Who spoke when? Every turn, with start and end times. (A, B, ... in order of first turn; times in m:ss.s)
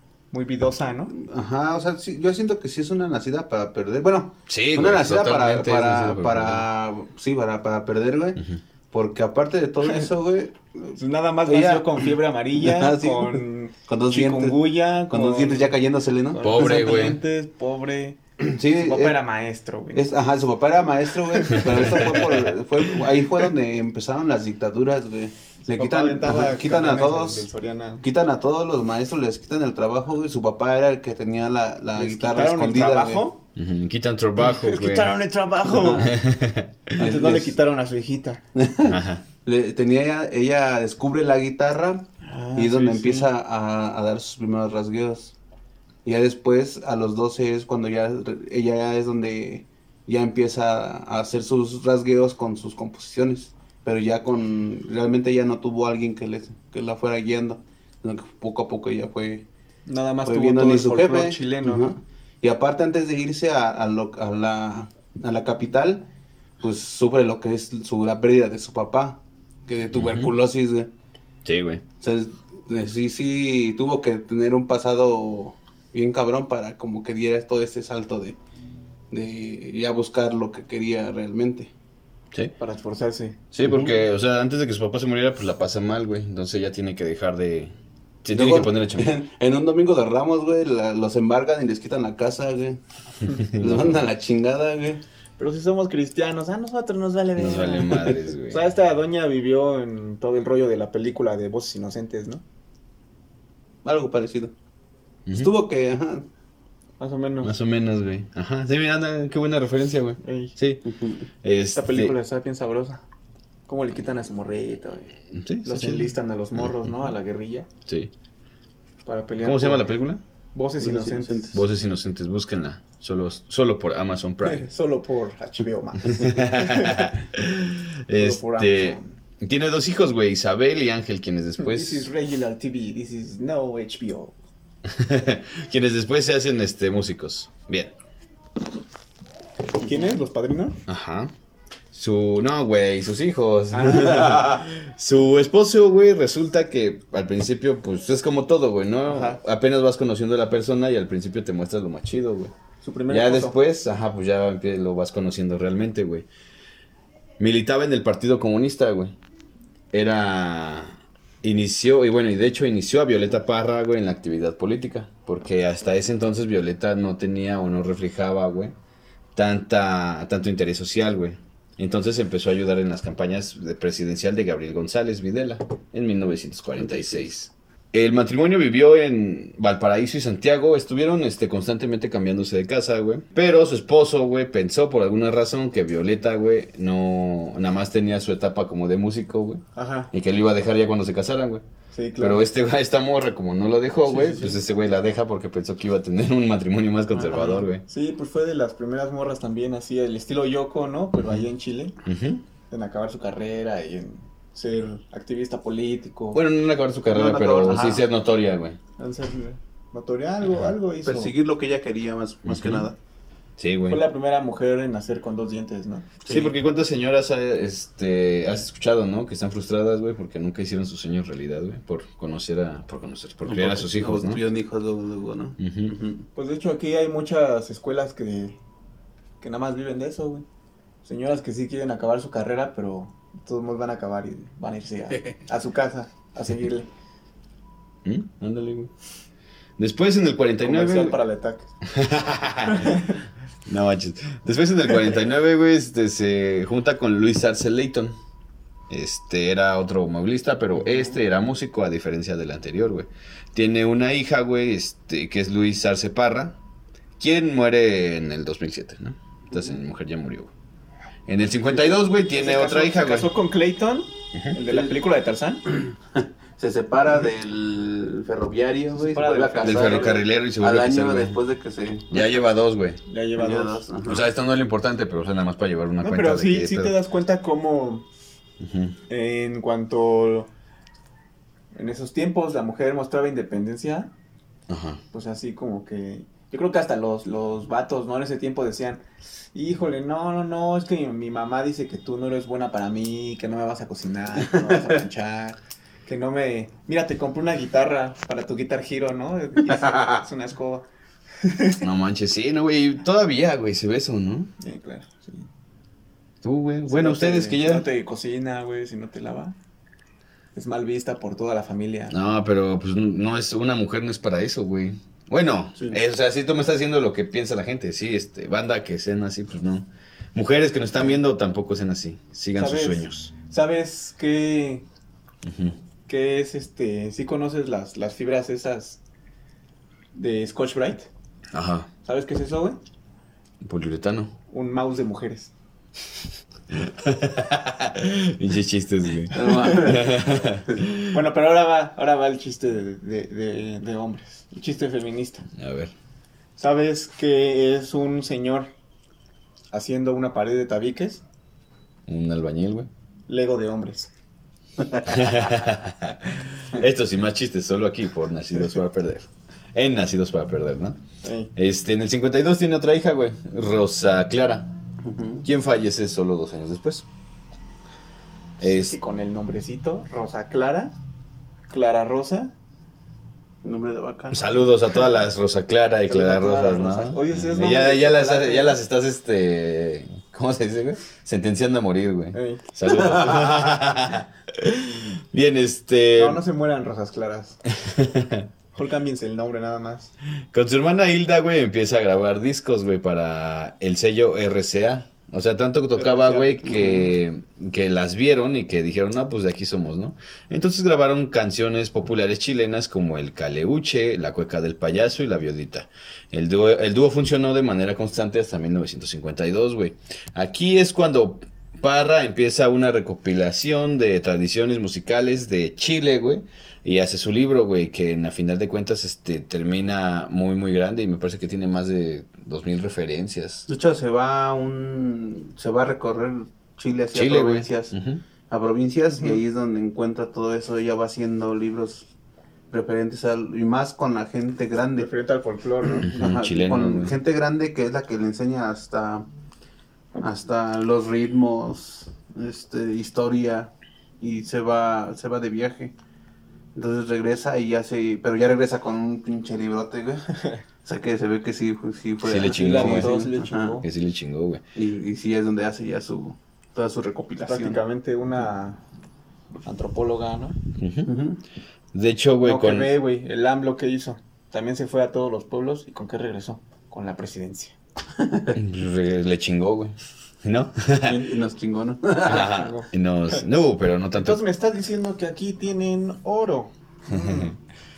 0:00.3-0:01.1 A
0:01.1-0:10.8 B
0:04.5-0:06.6 C
0:10.9-0:20.1 A
0:11.5-0:11.8 C
0:12.6-0:17.0 B
0:16.4-0:17.2 C
0:18.4-0:19.2 B
0:19.9-0:27.5 B
0:21.2-0:22.2 A
0:21.5-0:22.4 C
0:25.7-0:28.0 A
0:28.0-0:33.3 B
0:31.9-0:33.4 A
0:33.6-0:35.2 C
0:34.4-0:36.1 A
0:35.7-0:36.2 B
0:36.0-0:36.9 C
0:37.0-0:38.4 A
0:37.0-0:37.6 B
0:38.5-0:45.4 B
0:38.8-0:39.2 C
0:42.2-0:43.3 A
0:46.0-0:59.5 B
0:59.9-1:01.9 A
1:00.2-1:10.9 B
1:09.9-1:10.3 C
1:11.4-1:11.8 C
1:12.0-1:18.4 B
1:19.1-1:21.7 B
1:22.6-1:23.4 A
1:23.5-1:29.2 C
1:23.6-1:24.0 B
1:28.3-1:32.8 B
1:33.2-1:34.1 C
1:33.6-1:35.0 B
1:35.4-1:42.4 A
1:37.4-1:38.7 C
1:43.8-1:44.5 B
1:45.2-1:45.5 C
1:45.3-1:46.3 B
1:47.0-1:47.5 A
1:47.4-1:50.9 C
1:50.2-1:50.6 A
1:50.8-1:51.3 B
1:51.4-1:52.1 C
1:51.8-1:53.0 A
1:53.7-1:55.1 A
1:55.3-1:57.1 C
1:55.6-1:57.7 A
1:57.8-1:58.1 C
1:59.0-1:59.9 A
1:59.4-2:00.2 C
2:00.5-2:01.5 A
2:00.8-2:01.6 B
2:01.5-2:04.7 C
2:04.4-2:07.2 A
2:06.1-2:12.1 C
2:08.1-2:09.1 A
2:11.6-2:14.4 A
2:14.9-2:17.9 C
2:19.8-2:20.8 A
2:20.9-2:21.3 C
2:21.9-2:32.5 C
2:23.7-2:24.6 A
2:29.1-2:29.4 A
2:32.8-2:33.6 A
2:33.1-2:36.3 C
2:37.4-2:39.2 C
2:39.9-2:48.8 C
2:49.3-3:11.6 C
2:56.9-2:57.2 B
3:09.7-3:10.1 A
3:11.9-3:12.4 A
3:12.2-3:17.8 C
3:14.1-3:14.6 B
3:17.2-3:22.0 A
3:21.2-3:21.5 C
3:22.0-3:22.4 C
3:22.7-3:26.4 A
3:26.3-3:28.8 C
3:27.0-3:28.1 B
3:29.0-3:31.4 A
3:31.0-3:33.0 B
3:32.4-3:32.9 C
3:33.6-3:34.0 C
3:33.9-3:36.2 A
3:36.2-3:36.5 B
3:36.3-3:44.4 C
3:43.4-3:46.3 B
3:45.6-3:46.0 C
3:46.3-3:48.6 A
3:49.4-3:50.4 A
3:51.0-3:56.9 A
3:58.0-3:58.9 C
3:59.8-4:01.2 C
4:00.6-4:01.7 A
4:01.8-4:08.2 C
4:02.6-4:03.1 A
4:08.9-4:16.6 C
4:10.8-4:11.2 B
4:17.2-4:20.5 C
4:19.5-4:19.8 B
4:21.3-4:23.3 C
4:22.3-4:25.6 A
4:24.7-4:25.0 B
4:25.7-4:32.3 B
4:28.9-4:30.2 A
4:29.6-4:31.4 C
4:32.1-4:33.0 C
4:33.0-4:33.8 A
4:33.4-4:34.3 B
4:34.0-4:36.9 C
4:36.0-4:38.1 A
4:38.6-4:39.0 C
4:39.1-4:40.5 A
4:41.7-4:44.1 A
4:44.7-4:45.0 C
4:45.1-5:00.9 A
4:54.4-4:54.9 B
5:01.4-5:01.8 A
5:01.8-5:04.5 C
5:04.6-5:05.5 A
5:06.4-5:07.8 C
5:06.9-5:09.6 A
5:10.5-5:12.1 A
5:12.1-5:23.3 C
5:22.6-5:24.8 A
5:25.4-5:25.8 C
5:26.1-5:29.0 A
5:30.1-5:31.1 A
5:31.5-5:31.9 C
5:32.0-5:32.8 A
5:33.6-5:34.4 C
5:34.5-5:35.5 A
5:36.7-5:41.1 C
5:39.3-5:40.8 B
5:39.4-5:39.9 A
5:41.1-5:45.4 A
5:45.5-5:45.9 C
5:46.6-5:48.7 A
5:49.7-5:51.2 A
5:52.1-5:52.9 C
5:53.3-5:54.1 A
5:54.8-5:55.4 B
5:55.1-6:01.0 C
6:01.2-6:01.5 A
6:01.6-6:04.7 C
6:05.0-6:05.5 B
6:05.4-6:07.0 C
6:08.6-6:09.0 C
6:08.6-6:10.9 A
6:11.7-6:12.6 A
6:13.6-6:15.1 B
6:14.3-6:26.4 C
6:16.1-6:18.8 A
6:22.3-6:22.6 A
6:22.8-6:23.6 B
6:26.2-6:27.6 A
6:27.8-6:28.5 C
6:28.7-6:30.1 A
6:30.5-7:03.7 C
6:35.9-6:36.9 A
6:36.6-6:37.1 B
7:03.7-7:08.0 B
7:07.1-7:08.2 C
7:08.5-7:12.1 B
7:12.7-7:15.1 B
7:15.0-7:16.1 A
7:15.8-7:19.3 B
7:16.1-7:17.2 C
7:20.2-7:25.9 B
7:26.7-7:30.3 B
7:30.8-7:33.8 B
7:32.2-7:33.2 C
7:32.5-7:33.9 A
7:33.8-7:34.6 C
7:34.7-7:37.8 B
7:37.4-7:38.8 A
7:39.6-7:40.6 A
7:40.8-7:41.1 C
7:41.0-7:41.4 B
7:41.9-7:42.9 C
7:42.4-7:47.8 A
7:48.2-7:48.6 B
7:48.5-7:51.2 C
7:51.0-7:52.5 B
7:52.2-7:54.4 C
7:52.3-7:53.4 A
7:54.1-7:57.6 A
7:57.1-7:57.5 C